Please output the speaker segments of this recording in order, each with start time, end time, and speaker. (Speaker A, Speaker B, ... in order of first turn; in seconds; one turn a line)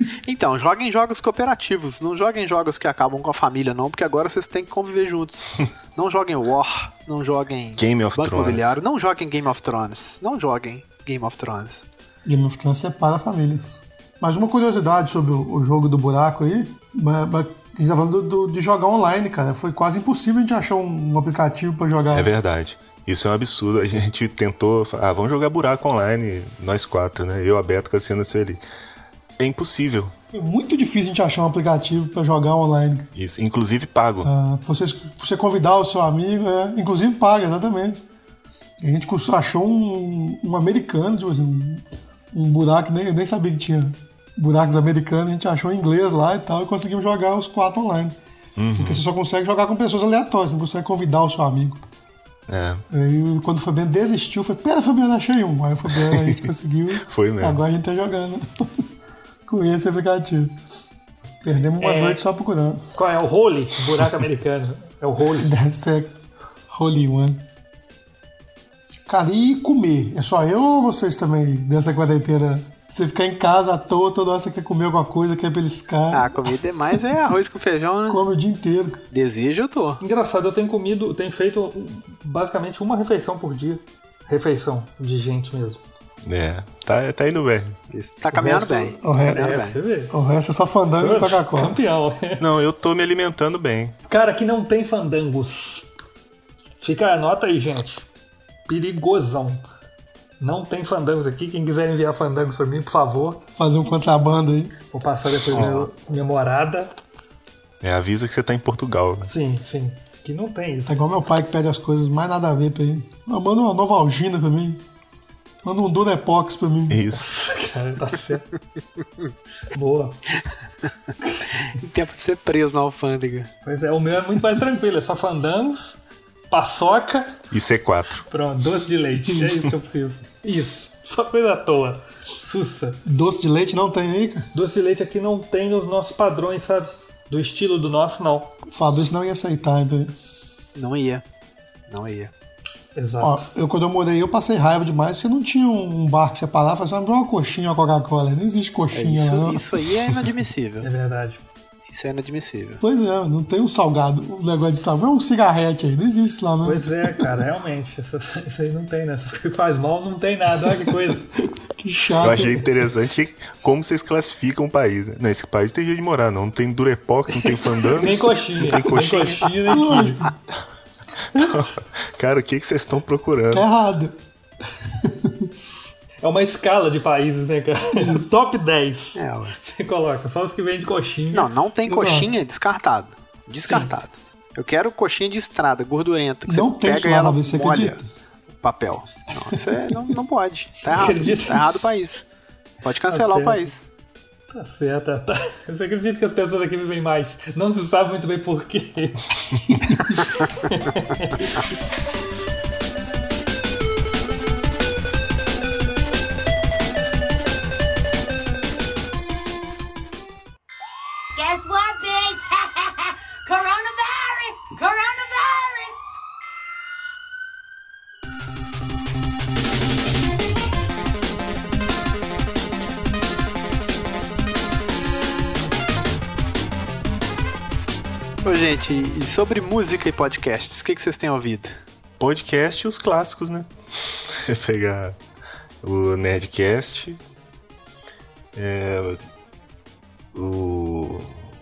Speaker A: 0.3-11.9
Speaker B: 7.8-8.8
Speaker C: 12.2-22.3
Speaker B: 22.1-28.6
Speaker B: 29.4-30.1
Speaker C: 30.3-33.1
Speaker B: 33.1-34.3
Speaker C: 34.2-38.0
Speaker C: 38.8-48.1
Speaker B: 48.6-49.0
Speaker C: 48.8-51.8
Speaker B: 52.5-52.8
Speaker C: 52.9-58.8
Speaker B: 56.1-56.5
Speaker B: 57.0-57.6
Speaker C: 59.5-60.5
Speaker C: 61.4-62.9
Speaker D: 61.8-62.2
Speaker D: 63.0-65.5
Speaker C: 65.4-66.1
Speaker C: 66.7-67.4
Speaker C: 69.1-76.5
Speaker A: 76.1-78.2
Speaker C: 78.1-79.0
Speaker A: 79.1-80.0
Speaker D: 80.0-85.8
Speaker B: 86.2-87.8
Speaker A: 87.9-89.8
Speaker D: 88.3-90.1
Speaker C: 88.4-89.5
Speaker C: 90.1-91.8
Speaker D: 91.0-92.4
Speaker B: 92.4-94.0
Speaker D: 94.1-95.9
Speaker D: 96.8-98.0
Speaker D: 98.7-99.6
Speaker D: 100.4-103.4
Speaker C: 103.6-104.8
Speaker D: 104.9-106.9
Speaker C: 105.5-105.9
Speaker B: 107.8-109.3
Speaker D: 109.2-111.0
Speaker C: 110.9-114.8
Speaker C: 115.6-117.2
Speaker B: 116.9-117.3
Speaker D: 117.2-118.5
Speaker D: 119.7-120.2
Speaker A: 121.7-123.5
Speaker D: 123.7-127.3
Speaker B: 127.5-128.3
Speaker D: 128.3-133.0
Speaker C: 133.1-134.5
Speaker D: 134.5-138.5
Speaker C: 138.7-140.1
Speaker A: 140.8-141.2
Speaker A: 141.9-142.3
Speaker D: 142.9-143.5
Speaker C: 143.2-149.7
Speaker A: 148.9-150.9
Speaker D: 150.8-151.4
Speaker A: 151.9-152.8
Speaker C: 152.8-157.2
Speaker D: 156.6-161.3
Speaker C: 161.7-162.7
Speaker B: 162.2-169.6
Speaker D: 167.9-170.2
Speaker C: 169.7-170.4
Speaker B: 171.3-173.7
Speaker C: 173.5-174.2
Speaker C: 174.8-175.5
Speaker D: 176.2-181.5
Speaker C: 177.9-178.4
Speaker A: 179.2-179.5
Speaker A: 181.3-188.0
Speaker C: 181.9-182.3
Speaker D: 183.7-183.9
Speaker C: 186.5-188.0
Speaker A: 188.6-192.2
Speaker D: 190.8-191.7
Speaker A: 192.8-193.9
Speaker D: 193.1-193.7
Speaker D: 194.5-199.3
Speaker D: 199.8-201.5
Speaker E: 211.4-216.0
Speaker A: 228.4-231.7
Speaker B: 232.2-235.2
Speaker B: 235.8-237.2
Speaker B: 238.6-239.2
Speaker B: 240.3-241.4